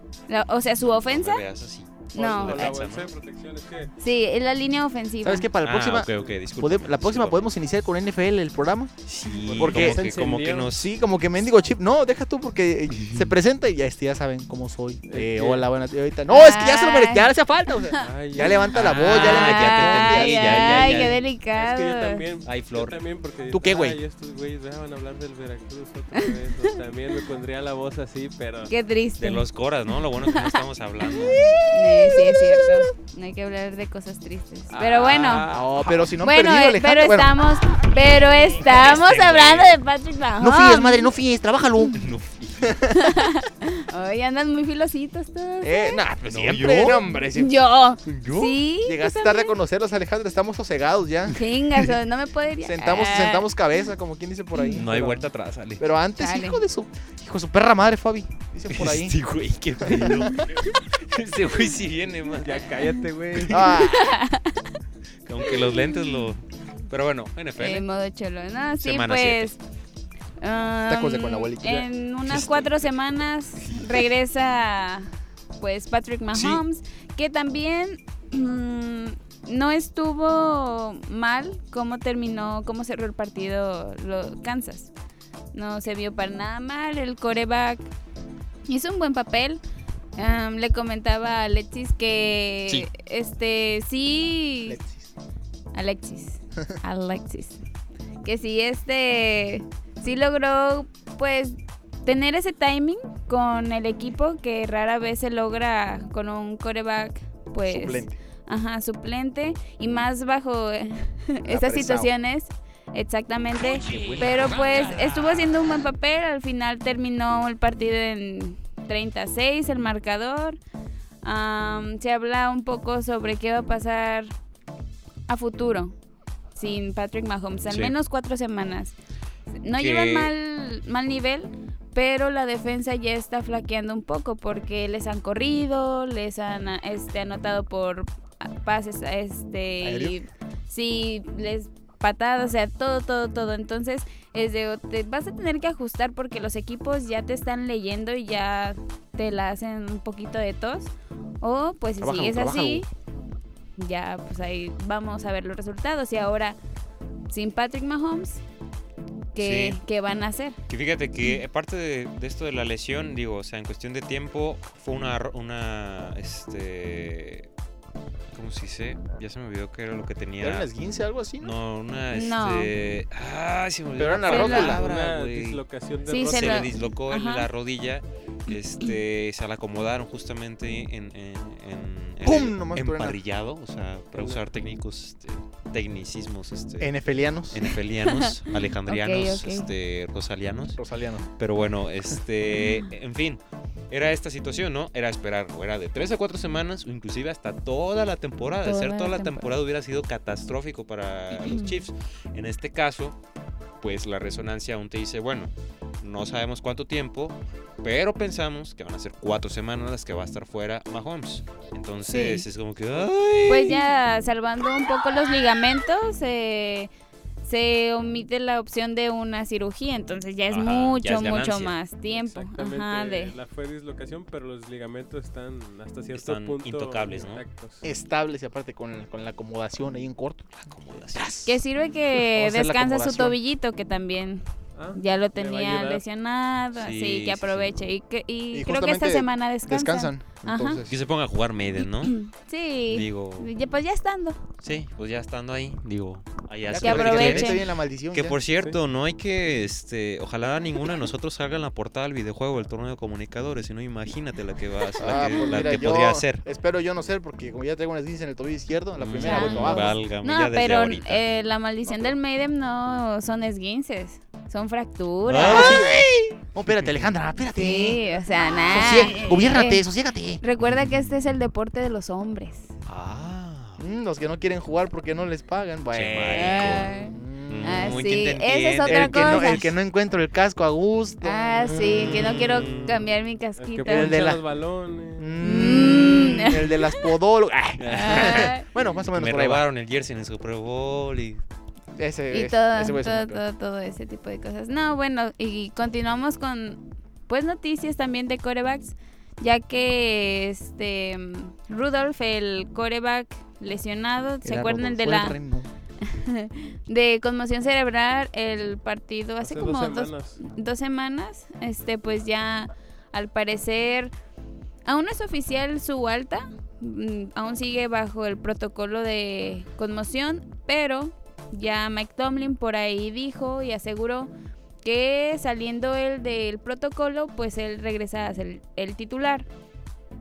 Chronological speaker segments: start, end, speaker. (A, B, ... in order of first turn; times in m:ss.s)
0:00.3-0:01.4 A
0:00.8-0:03.1 B
0:02.1-0:02.7 A
0:02.1-0:03.9 C
0:04.0-0:05.5 A
0:05.2-0:08.9 D
0:05.6-0:07.4 B
0:09.0-0:10.9 B
0:09.3-0:10.7 C
0:09.6-0:10.0 D
0:10.7-0:21.1 D
0:13.0-0:13.3 B
0:15.1-0:15.7 C
0:16.3-0:22.2 A
0:18.0-0:18.7 C
0:18.7-0:21.2 B
0:21.5-0:28.7 C
0:22.4-0:23.0 B
0:23.5-0:24.0 D
0:28.7-0:29.4 A
0:29.2-0:31.5 B
0:30.2-0:30.6 A
0:31.5-0:32.8 D
0:31.7-0:35.4 A
0:34.7-0:36.0 C
0:35.5-0:37.3 D
0:36.2-0:41.1 A
0:38.6-0:39.8 B
0:40.4-0:42.0 D
0:41.9-0:42.8 B
0:42.6-0:43.2 D
0:43.0-0:46.0 A
0:45.6-0:47.5 D
0:46.2-0:47.0 B
0:47.0-0:49.5 A
0:48.0-0:48.6 B
0:48.8-0:51.4 D
0:51.3-0:53.4 A
0:52.6-0:55.0 D
0:54.7-0:55.8 B
0:54.9-0:55.2 C
0:55.8-0:59.2 D
0:56.2-0:56.6 A
0:58.7-1:00.5 B
0:59.8-1:00.4 D
1:01.1-1:02.7 B
1:02.4-1:03.6 C
1:03.4-1:03.6 B
1:03.5-1:04.1 D
1:03.8-1:04.7 A
1:05.2-1:07.8 B
1:05.6-1:06.0 A
1:07.6-1:09.6 A
1:08.8-1:09.5 B
1:10.4-1:24.9 A
1:10.9-1:12.4 D
1:12.3-1:12.6 B
1:16.3-1:16.6 B
1:25.5-1:27.9 A
1:28.7-1:29.6 A
1:30.2-1:34.8 A
1:34.6-1:35.1 D
1:35.7-1:37.6 A
1:38.2-2:00.6 A
1:47.6-1:48.2 D
1:51.4-1:52.1 D
1:53.6-1:55.8 B
2:01.2-2:04.3 A
2:05.3-2:05.9 A
2:06.6-2:08.9 A
2:07.7-2:07.9 B
2:09.6-2:32.9 A
2:09.8-2:10.3 B
2:19.8-2:20.2 D
2:32.0-2:32.8 D
2:33.8-2:36.6 A
2:37.3-2:38.4 A
2:39.3-2:40.6 A
2:39.4-2:39.8 B
2:40.7-2:47.5 B
2:48.3-2:50.7 B
2:50.4-2:51.5 D
2:51.4-2:55.6 B
2:52.1-2:52.7 A
2:54.0-2:54.8 D
2:54.3-2:54.8 A
2:54.4-2:56.7 C
2:56.1-2:57.5 A
2:56.2-3:06.9 B
3:02.2-3:03.2 D
3:04.1-3:04.4 C
3:06.8-3:07.6 D
3:07.5-3:10.8 B
3:07.7-3:09.7 A
3:10.7-3:11.3 D
3:11.4-3:23.2 B
3:12.6-3:12.8 A
3:18.6-3:19.5 A
3:21.3-3:21.7 A
3:23.8-3:33.8 B
3:32.1-3:32.4 A
3:33.5-3:36.9 A
3:37.4-3:43.3 A
3:40.5-3:41.8 B
3:42.1-3:47.8 C
3:46.1-3:47.4 B
3:47.8-3:50.5 D
3:50.6-3:51.4 B
3:51.1-3:53.4 D
3:51.4-3:54.4 A
3:54.7-3:56.0 C
3:55.0-4:00.8 A
3:56.7-3:57.7 B
3:58.5-4:01.0 D
4:00.8-4:02.1 B
4:01.8-4:04.4 A
4:02.9-4:03.5 B
4:04.6-4:07.6 B
4:06.7-4:08.4 D
4:06.8-4:07.6 A
4:08.1-4:16.4 B
4:15.0-4:20.0 D
4:19.0-4:21.2 B
4:19.2-4:25.8 A
4:25.2-4:26.1 B
4:25.3-4:28.0 D
4:27.5-4:29.8 A
4:28.7-4:30.4 D
4:30.4-4:32.7 A
4:32.8-4:33.8 B
4:33.8-4:38.0 D
4:35.9-4:36.9 B
4:36.3-4:39.6 A
4:37.5-4:39.7 B
4:38.8-4:42.4 D
4:41.2-4:44.2 A
4:41.7-4:43.1 B
4:43.6-4:45.4 C
4:43.8-4:44.4 D
4:45.2-4:49.6 D
4:45.4-4:46.9 A
4:47.8-4:48.5 B
4:47.9-4:48.6 A
4:49.1-4:51.4 B
4:52.0-4:53.4 D
4:52.3-5:05.4 A
5:04.4-5:05.7 D
5:06.0-5:14.1 A
5:09.4-5:10.4 C
5:14.8-5:24.3 A
5:24.8-5:29.4 A